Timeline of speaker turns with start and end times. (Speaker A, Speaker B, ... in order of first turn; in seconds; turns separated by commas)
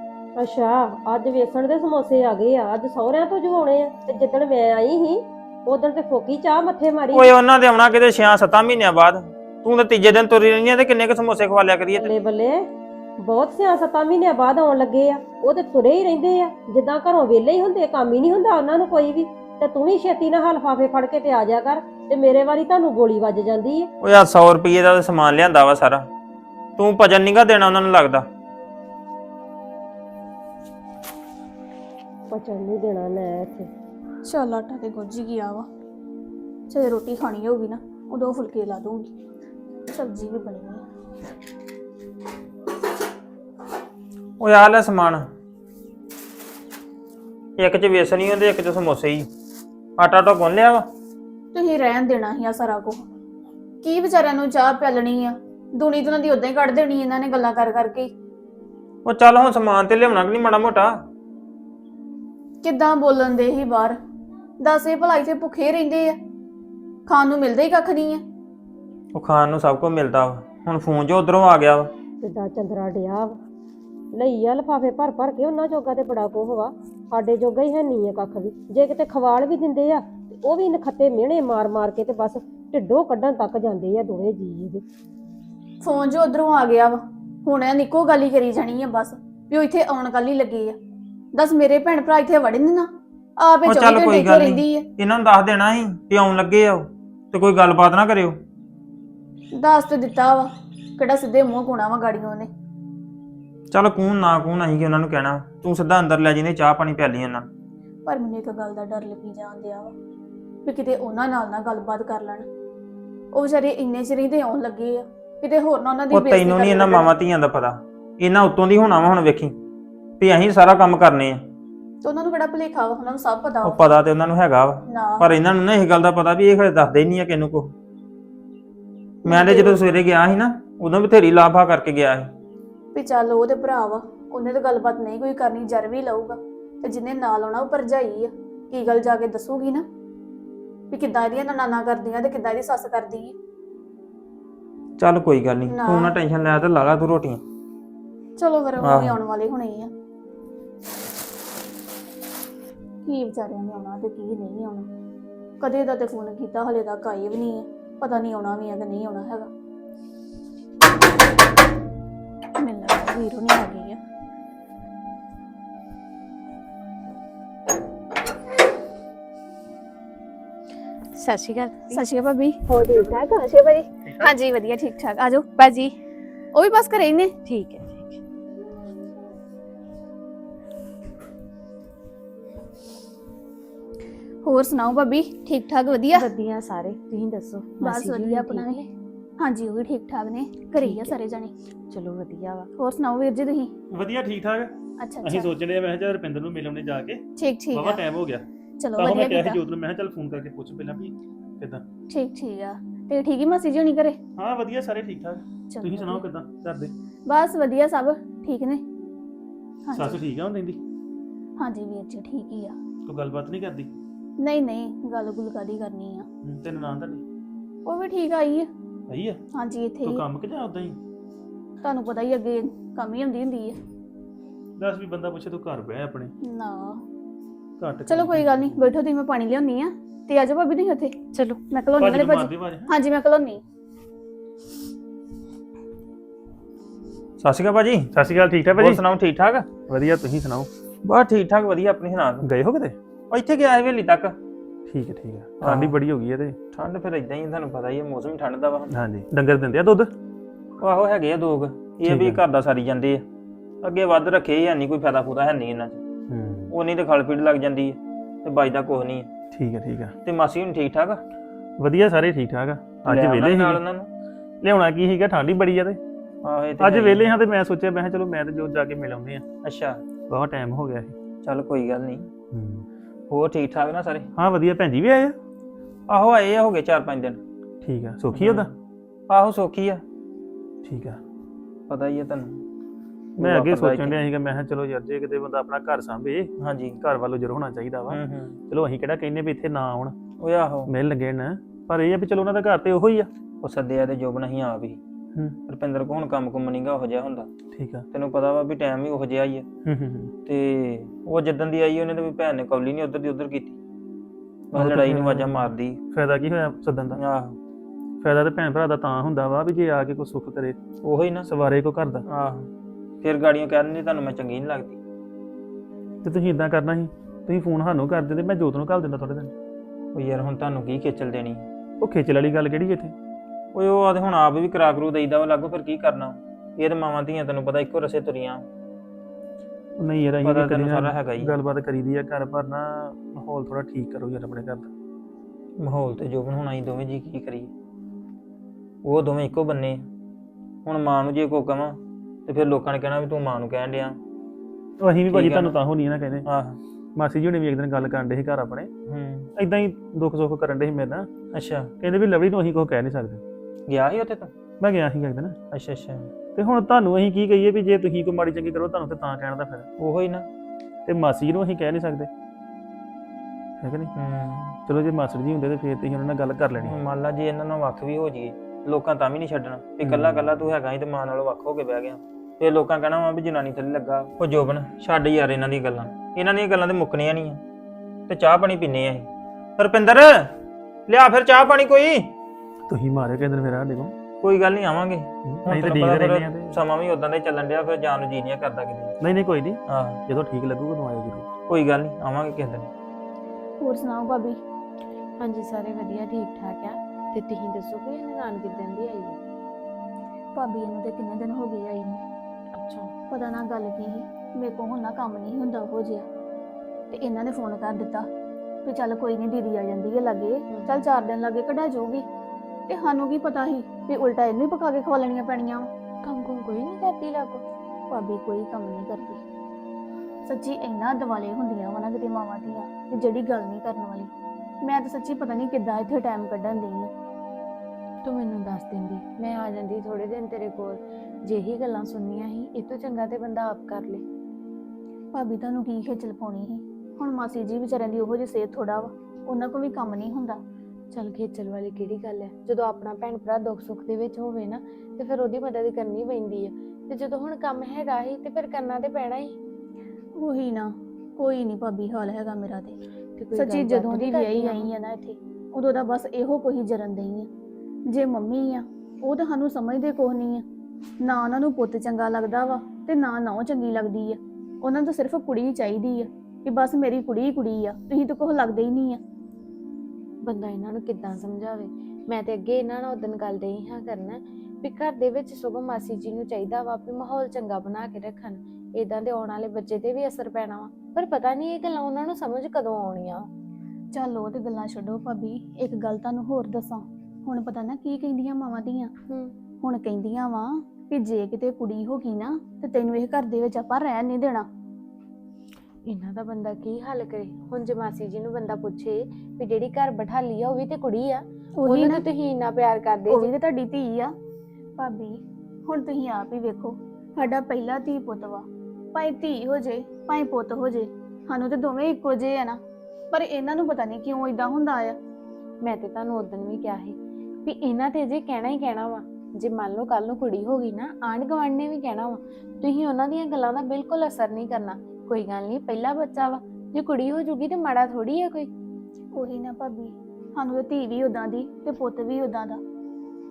Speaker A: 0.4-7.3, Speaker B: 7.1-12.1, Speaker A: 11.9-23.9, Speaker B: 24.0-26.1, Speaker B: 26.8-28.2, Speaker A: 32.3-33.7, Speaker C: 34.2-35.7, Speaker C: 36.7-39.1, Speaker C: 39.9-40.8, Speaker B: 44.4-45.3, Speaker B: 47.6-49.3, Speaker B: 50.0-50.9, Speaker C: 51.5-53.0, Speaker C: 53.8-58.1, Speaker B: 59.0-60.9, Speaker C: 62.6-64.0, Speaker C: 64.6-66.2, Speaker C: 67.1-68.2, Speaker B: 69.1-71.9, Speaker A: 72.2-73.4, Speaker A: 74.1-84.8, Speaker C: 85.8-90.8, Speaker C: 91.3-94.9, Speaker B: 93.7-98.4, Speaker C: 99.5-102.5, Speaker B: 103.7-107.5, Speaker C: 108.1-109.9, Speaker C: 110.7-112.5, Speaker C: 113.3-117.1, Speaker B: 116.1-119.5, Speaker B: 120.2-121.4, Speaker C: 122.0-123.8, Speaker B: 123.6-127.7, Speaker C: 124.9-125.3, Speaker C: 129.2-129.8, Speaker B: 129.2-132.3, Speaker C: 132.9-139.9, Speaker C: 140.9-143.3, Speaker B: 145.0-147.4, Speaker C: 145.7-146.2, Speaker C: 148.4-149.9, Speaker B: 148.8-149.2, Speaker C: 153.1-154.9, Speaker C: 155.6-159.5, Speaker C: 162.6-164.0, Speaker D: 171.2-172.0, Speaker C: 171.9-172.6, Speaker D: 172.7-173.9, Speaker A: 173.0-173.4, Speaker C: 174.2-175.5, Speaker D: 175.6-175.9, Speaker C: 176.5-177.3, Speaker D: 177.4-178.2, Speaker C: 184.4-186.3, Speaker D: 186.1-188.9, Speaker C: 187.8-188.8, Speaker C: 189.4-191.5, Speaker D: 190.7-191.2, Speaker D: 191.9-192.7, Speaker C: 192.8-193.7, Speaker E: 193.9-197.2, Speaker C: 195.0-195.5, Speaker C: 197.4-198.0, Speaker E: 197.7-198.4, Speaker C: 198.8-199.6, Speaker E: 198.9-201.8, Speaker C: 202.1-204.2, Speaker E: 204.4-206.9, Speaker C: 205.7-206.2, Speaker C: 207.3-208.8, Speaker C: 209.8-210.2, Speaker E: 209.9-210.8, Speaker C: 211.6-212.8, Speaker E: 213.1-213.9, Speaker C: 214.4-216.3, Speaker E: 216.4-217.2, Speaker C: 217.8-218.7, Speaker E: 219.1-219.4, Speaker C: 219.6-220.2, Speaker E: 220.0-221.0, Speaker C: 221.8-223.8, Speaker E: 224.8-226.3, Speaker C: 226.4-227.0, Speaker E: 227.8-228.8, Speaker C: 228.1-231.2, Speaker C: 231.7-233.6, Speaker E: 232.0-232.9, Speaker B: 237.4-238.1, Speaker E: 238.1-239.0, Speaker B: 238.8-239.7, Speaker E: 239.9-240.7, Speaker B: 241.1-242.4, Speaker E: 242.4-242.9, Speaker B: 243.3-244.3, Speaker E: 244.9-246.6, Speaker B: 245.6-245.9, Speaker B: 246.7-248.9, Speaker E: 248.9-250.1, Speaker B: 250.8-253.2, Speaker E: 252.0-252.4, Speaker B: 253.8-256.0, Speaker E: 256.3-256.7, Speaker B: 256.7-259.3, Speaker E: 259.5-260.1, Speaker B: 260.2-261.2, Speaker E: 261.8-263.8, Speaker B: 263.0-264.1, Speaker E: 264.6-266.0, Speaker B: 266.4-267.3, Speaker E: 266.8-269.4, Speaker B: 269.6-270.0, Speaker E: 270.3-271.1, Speaker B: 271.4-272.3, Speaker E: 272.5-272.8, Speaker B: 273.3-274.3, Speaker E: 274.4-275.3, Speaker B: 276.1-277.4, Speaker E: 277.8-278.7, Speaker B: 278.3-278.7, Speaker B: 279.3-280.0, Speaker E: 280.8-281.2, Speaker B: 281.9-282.6, Speaker E: 283.4-290.1, Speaker B: 283.4-284.2, Speaker B: 286.6-286.9, Speaker B: 288.1-288.6, Speaker B: 290.4-290.9, Speaker E: 290.9-293.3, Speaker B: 293.6-295.0, Speaker B: 295.7-297.5, Speaker E: 297.8-298.1, Speaker B: 298.1-299.6, Speaker E: 299.9-300.3, Speaker B: 300.4-303.8, Speaker B: 304.7-306.0, Speaker E: 304.7-307.2, Speaker B: 307.1-307.6, Speaker E: 308.2-310.8, Speaker B: 311.0-311.5, Speaker E: 311.5-312.2, Speaker B: 312.3-312.7, Speaker B: 313.2-315.0, Speaker E: 316.2-319.5, Speaker B: 320.1-321.6, Speaker E: 322.0-323.1, Speaker B: 323.8-328.6, Speaker E: 330.0-334.9, Speaker B: 330.4-331.6, Speaker B: 335.8-337.7, Speaker B: 339.0-340.0, Speaker B: 340.9-344.2, Speaker E: 345.0-346.4, Speaker B: 345.3-345.8, Speaker B: 346.4-346.8, Speaker E: 347.2-348.9, Speaker B: 349.1-349.5, Speaker E: 349.6-351.3, Speaker B: 351.5-351.9, Speaker E: 352.0-353.4, Speaker B: 353.9-354.5, Speaker E: 354.8-355.6, Speaker B: 355.7-356.3, Speaker E: 356.6-359.9, Speaker B: 360.0-360.5, Speaker E: 361.1-362.3, Speaker E: 363.8-364.1, Speaker B: 364.2-364.8, Speaker E: 364.9-367.0, Speaker B: 366.8-377.6, Speaker E: 370.1-370.6, Speaker B: 378.3-380.5, Speaker B: 381.1-382.3, Speaker E: 382.9-384.1, Speaker B: 384.4-389.1, Speaker E: 385.5-386.8, Speaker E: 389.2-391.5, Speaker B: 389.9-390.2, Speaker B: 391.7-392.9, Speaker C: 393.8-394.6, Speaker D: 395.4-399.4, Speaker C: 400.6-402.2, Speaker D: 402.7-403.1, Speaker C: 403.3-406.3, Speaker C: 407.1-408.3, Speaker C: 408.8-412.2, Speaker D: 410.7-411.1, Speaker C: 412.9-415.9, Speaker D: 416.2-417.6, Speaker C: 418.1-419.4, Speaker C: 420.4-424.3, Speaker C: 424.8-427.1, Speaker D: 428.2-434.2, Speaker C: 435.3-440.6, Speaker D: 441.1-449.6, Speaker C: 450.4-452.9, Speaker D: 453.4-454.9, Speaker C: 453.6-457.5, Speaker C: 458.1-460.6, Speaker C: 461.2-469.2, Speaker D: 470.4-483.5, Speaker C: 484.1-489.1, Speaker C: 489.8-494.7, Speaker D: 496.1-503.5, Speaker C: 501.8-502.3, Speaker C: 503.3-504.3, Speaker C: 505.0-512.8, Speaker C: 513.3-515.2, Speaker D: 515.8-528.7, Speaker C: 529.3-532.8